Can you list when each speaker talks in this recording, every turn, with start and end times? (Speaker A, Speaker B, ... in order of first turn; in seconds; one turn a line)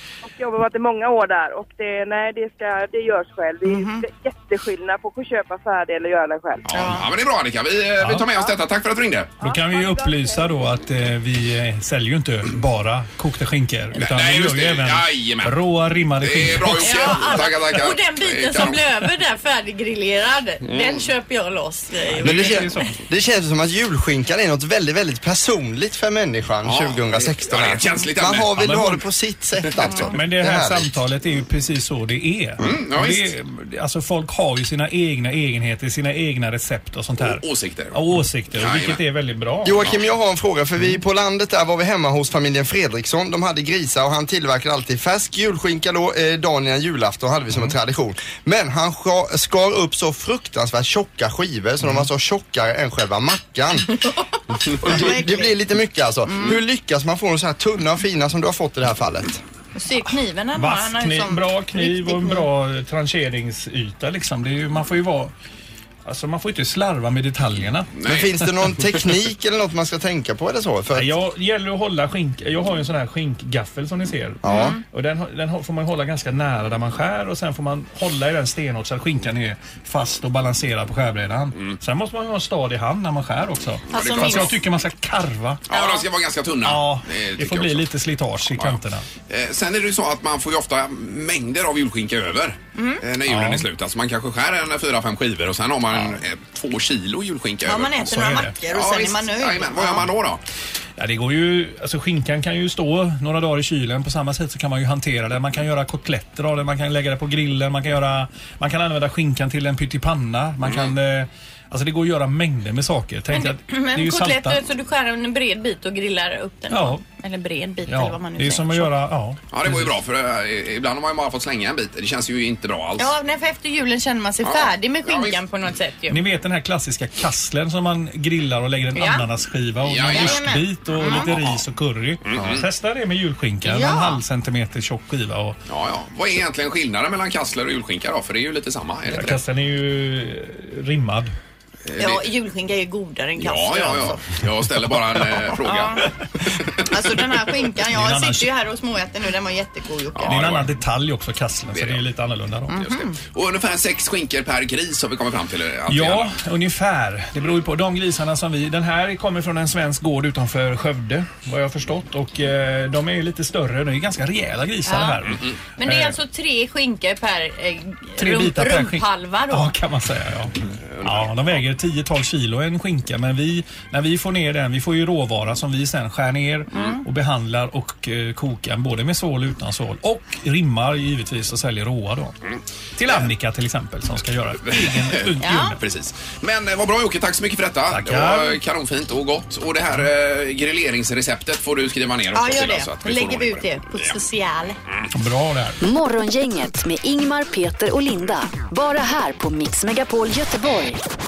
Speaker A: 0.2-6.7
Speaker B: 3.6-4.0
Speaker C: 6.7-9.3
Speaker B: 6.7-7.0
Speaker D: 8.0-8.3
Speaker D: 9.4-17.6
Speaker A: 9.4-10.4
Speaker C: 13.9-15.6
Speaker C: 16.2-18.8
Speaker B: 16.8-22.8
Speaker C: 20.6-21.1
Speaker D: 22.1-22.9
Speaker E: 22.2-30.9
Speaker C: 26.6-28.8
Speaker D: 28.6-29.0
Speaker D: 30.1-39.8
Speaker C: 32.6-33.3
Speaker C: 37.2-38.0
Speaker C: 38.5-39.0
Speaker E: 39.6-53.9
Speaker B: 53.9-55.5
Speaker E: 54.8-59.4
Speaker B: 56.3-56.6
Speaker B: 59.7-62.5
Speaker D: 60.5-65.3
Speaker D: 66.0-67.9
Speaker C: 68.0-68.3
Speaker E: 68.0-71.1
Speaker D: 70.9-85.7
Speaker E: 74.4-74.7
Speaker B: 74.5-74.8
Speaker B: 83.9-84.6
Speaker C: 83.9-84.6
Speaker C: 85.7-87.8
Speaker B: 85.7-86.0
Speaker D: 86.6-89.0
Speaker C: 88.5-98.1
Speaker B: 92.8-93.0
Speaker D: 93.2-93.6
Speaker B: 97.6-100.1
Speaker D: 98.1-98.5
Speaker C: 98.7-100.4
Speaker D: 101.0-114.6
Speaker C: 110.7-110.9
Speaker B: 113.3-118.9
Speaker D: 116.7-117.0
Speaker D: 117.8-119.9
Speaker C: 119.5-123.1
Speaker B: 123.0-126.2
Speaker C: 124.4-125.4
Speaker D: 126.1-135.6
Speaker B: 128.9-129.2
Speaker C: 129.8-130.5
Speaker B: 130.1-131.6
Speaker C: 132.2-132.7
Speaker B: 133.6-134.2
Speaker C: 135.7-139.4
Speaker D: 139.1-141.3
Speaker C: 141.8-142.2
Speaker B: 142.0-144.4
Speaker C: 143.4-146.0
Speaker B: 145.3-146.1
Speaker C: 146.6-146.8
Speaker B: 146.8-150.4
Speaker D: 147.9-148.5
Speaker C: 150.1-150.7
Speaker D: 150.2-152.8
Speaker C: 151.7-152.0
Speaker B: 152.7-153.2
Speaker C: 152.8-156.3
Speaker D: 155.9-166.2
Speaker B: 164.8-165.2
Speaker C: 165.3-165.6
Speaker B: 165.8-169.8
Speaker D: 168.2-182.3
Speaker C: 170.9-171.6
Speaker B: 176.7-177.0
Speaker C: 182.5-183.3
Speaker D: 182.9-185.8
Speaker C: 184.6-194.2
Speaker B: 185.4-185.7
Speaker D: 187.9-188.6
Speaker B: 192.3-194.8
Speaker D: 195.1-195.8
Speaker F: 195.8-201.0